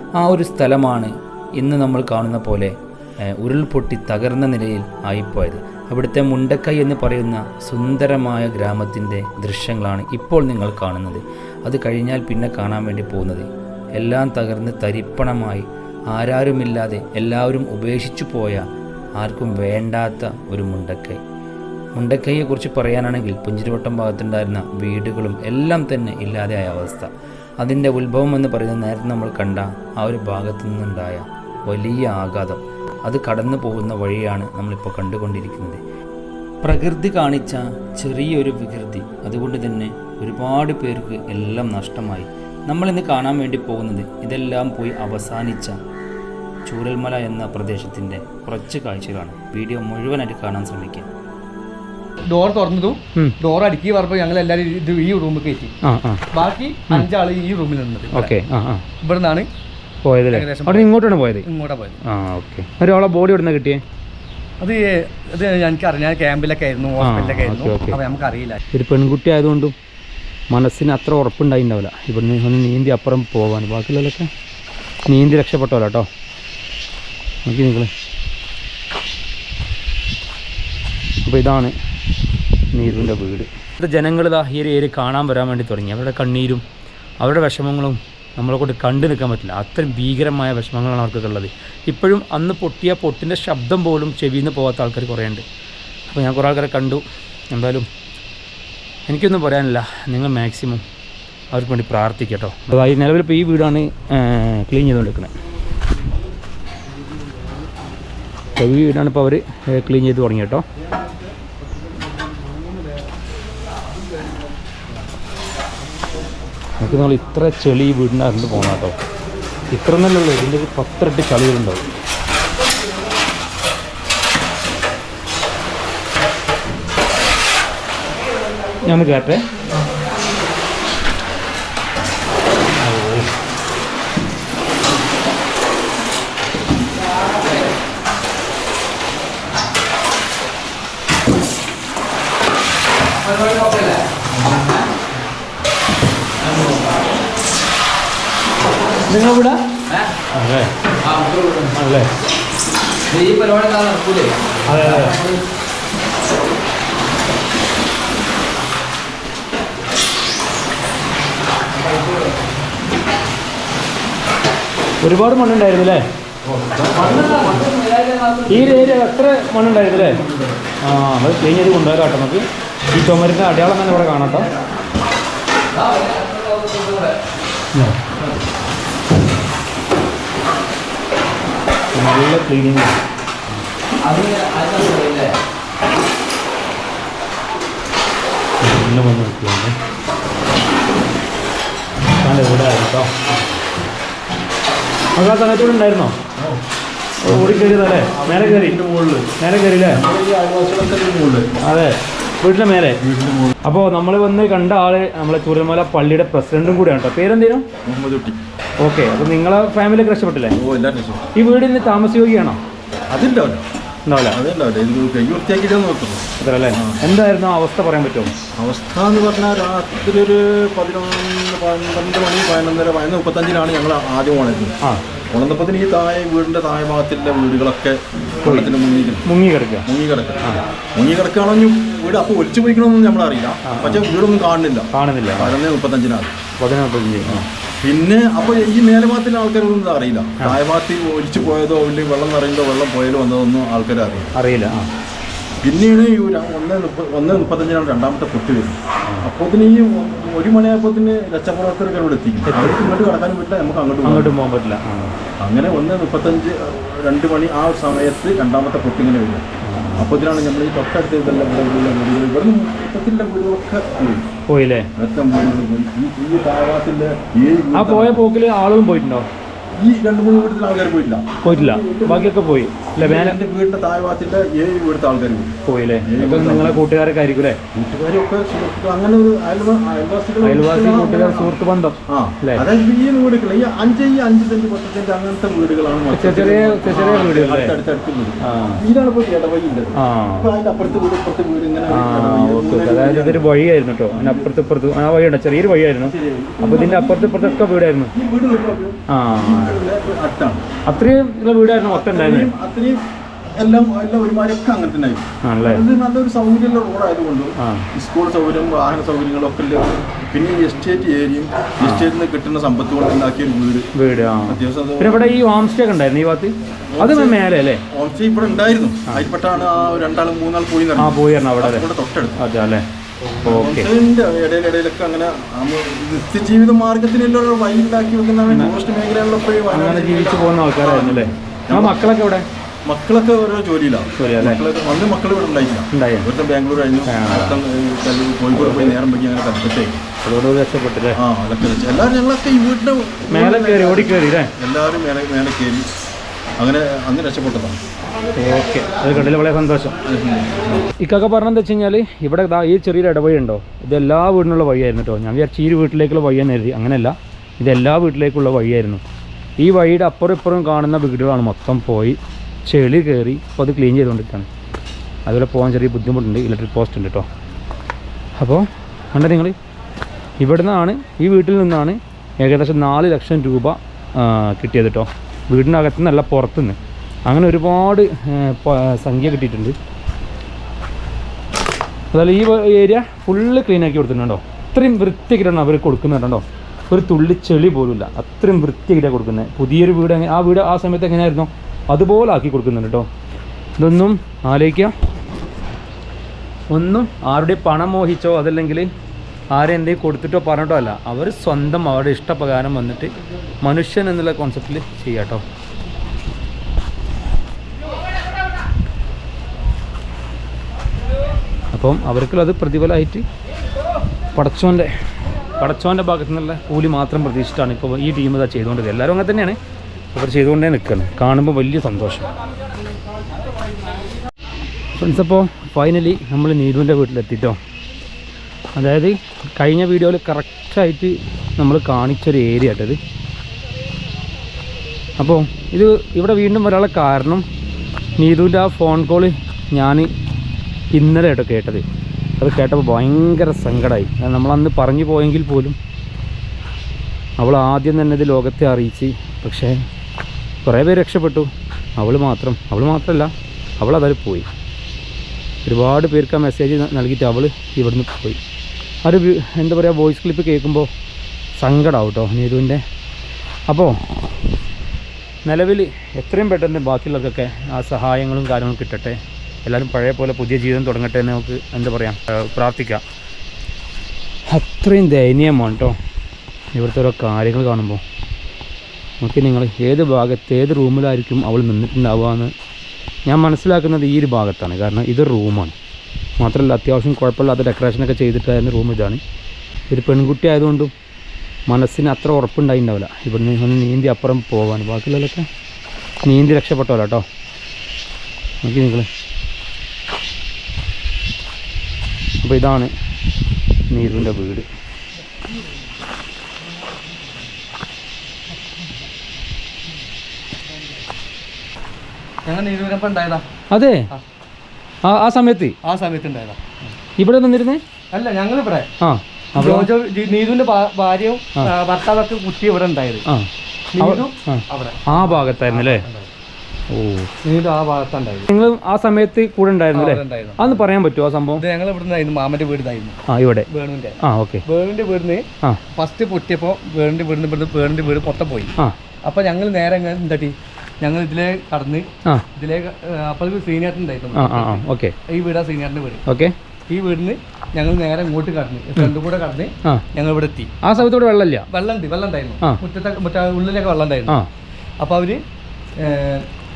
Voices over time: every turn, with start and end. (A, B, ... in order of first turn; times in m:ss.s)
0:00.2-0:02.7 A
0:03.4-0:18.6 A
0:19.2-0:21.2 A
0:21.9-0:27.1 A
0:27.6-0:35.8 A
0:36.6-0:45.7 A
0:46.6-0:51.1 A
0:52.2-0:55.7 B
0:55.8-0:56.2 A
0:56.3-0:58.4 B
0:58.1-0:58.8 A
0:59.0-0:59.5 B
1:00.0-1:01.4 A
1:00.3-1:00.9 B
1:01.4-1:02.0 B
1:02.0-1:03.8 A
1:04.6-1:08.6 B
1:07.0-1:08.0 A
1:08.7-1:09.7 A
1:10.5-1:14.3 A
1:15.1-1:16.1 A
1:17.4-1:17.9 A
1:21.2-1:21.7 A
1:22.7-1:26.6 A
1:27.2-1:35.4 A
1:36.1-1:37.9 A
1:39.1-1:40.8 A
1:41.5-1:45.3 A
1:48.6-1:50.6 A
1:56.8-1:59.0 A
1:59.7-2:01.8 A
2:08.8-2:09.4 A
2:12.8-2:13.3 A
2:23.2-2:24.0 B
2:26.5-2:26.8 B
2:29.0-2:29.6 A
2:30.3-2:30.7 A
2:31.0-2:31.6 B
2:31.7-2:32.1 A
2:33.1-2:35.1 B
2:34.6-2:35.2 A
2:45.0-2:46.0 A
2:46.8-2:48.6 B
2:47.0-2:47.4 A
2:48.4-2:50.2 A
2:50.8-2:54.5 A
2:55.7-2:57.2 B
2:57.7-2:58.0 A
3:01.9-3:02.9 A
3:04.0-3:05.3 B
3:08.6-3:09.7 A
3:12.2-3:13.1 A
3:15.2-3:16.2 A
3:17.2-3:18.8 A
3:17.3-3:19.3 C
3:19.4-3:20.0 A
3:19.9-3:21.5 C
3:21.6-3:23.0 A
3:23.0-3:23.5 C
3:23.6-3:27.6 A
3:27.8-3:28.4 C
3:28.8-3:30.6 A
3:30.6-3:31.3 C
3:31.3-3:32.6 A
3:33.1-3:33.6 C
3:34.0-3:34.4 A
3:34.3-3:37.0 C
3:36.4-3:38.3 A
3:38.6-3:44.8 C
3:45.3-3:49.3 C
3:48.4-3:48.7 A
3:49.2-3:49.9 A
3:49.8-3:56.3 C
3:53.6-3:54.1 A
3:54.9-3:55.5 A
3:56.6-3:57.4 A
3:57.2-4:04.3 C
4:04.3-4:04.9 A
4:05.6-4:14.3 C
4:12.5-4:12.9 A
4:14.0-4:15.2 A
4:15.4-4:19.4 C
4:19.6-4:20.1 A
4:20.0-4:24.2 C
4:24.5-4:24.9 A
4:25.0-4:28.2 C
4:27.7-4:29.3 A
4:29.8-4:32.4 C
4:31.4-4:33.4 A
4:33.0-4:36.8 C
4:35.6-4:37.6 A
4:37.7-4:41.6 C
4:40.4-4:42.6 A
4:42.1-4:53.5 C
4:46.1-4:47.7 A
4:48.4-4:48.8 A
4:50.0-4:50.5 A
4:51.9-4:58.1 A
4:54.1-4:54.6 C
4:56.0-5:00.6 C
4:59.1-4:59.7 A
5:00.8-5:02.5 A
5:01.8-5:03.0 C
5:03.6-5:13.9 C
5:05.4-5:05.8 A
5:07.6-5:07.9 A
5:11.8-5:12.1 A
5:13.9-5:17.8 A
5:14.5-5:15.3 C
5:16.9-5:22.4 C
5:21.0-5:21.9 A
5:22.4-5:22.8 A
5:23.4-5:23.9 A
5:23.4-5:32.0 C
5:29.7-5:32.4 A
5:32.8-5:40.0 C
5:34.2-5:34.6 A
5:35.9-5:36.3 A
5:37.1-5:37.6 A
5:38.5-5:38.9 A
5:40.2-5:41.2 A
5:41.1-5:45.8 C
5:43.3-5:44.5 A
5:46.6-5:47.8 C
5:48.4-5:50.0 A
5:50.0-5:50.7 C
5:50.8-5:59.0 A
5:59.6-6:04.5 A
6:05.2-6:07.3 A
6:08.4-6:09.6 A
6:10.4-6:19.8 A
6:22.1-6:33.1 A
6:33.8-6:34.9 A
6:36.7-6:38.9 A
6:39.5-6:45.4 A
6:51.7-6:53.2 A
6:54.3-6:54.9 A
6:55.6-6:59.6 A
7:00.1-7:02.3 A
7:05.0-7:07.6 A
7:08.7-7:13.0 A
7:15.2-7:17.4 A
7:18.2-7:20.1 A
7:20.9-7:21.8 A
7:22.4-7:25.8 A
7:27.4-7:29.8 A
7:30.6-7:34.4 A
7:35.6-7:38.4 A
7:39.0-7:40.9 A
7:41.6-7:42.8 A
7:43.7-7:44.0 A
7:45.4-7:53.0 A
7:54.5-7:56.0 A
7:56.7-7:58.0 A
7:59.2-8:02.5 A
8:03.2-8:05.7 A
8:06.4-8:09.2 A
8:09.9-8:10.9 A
8:11.7-8:15.5 A
8:16.2-8:17.2 A
8:18.6-8:19.1 A
8:22.4-8:22.9 A
8:23.9-8:24.7 A
8:32.4-8:33.4 B
8:33.7-8:34.0 A
8:35.0-8:35.8 A
8:35.8-8:36.6 B
8:37.2-8:37.8 A
8:38.1-8:38.9 B
8:39.0-8:39.9 A
8:39.6-8:43.2 B
8:43.3-8:46.0 A
8:43.9-8:46.3 B
8:46.9-8:47.3 A
8:47.4-8:48.5 B
8:48.5-8:51.6 A
8:49.9-8:50.8 B
8:51.6-9:06.2 B
8:53.3-8:53.7 A
8:54.2-8:54.6 A
9:04.3-9:05.1 A
9:06.2-9:06.5 A
9:06.9-9:10.8 B
9:10.8-9:11.6 A
9:11.7-9:14.4 B
9:15.0-9:15.4 B
9:16.0-9:16.5 B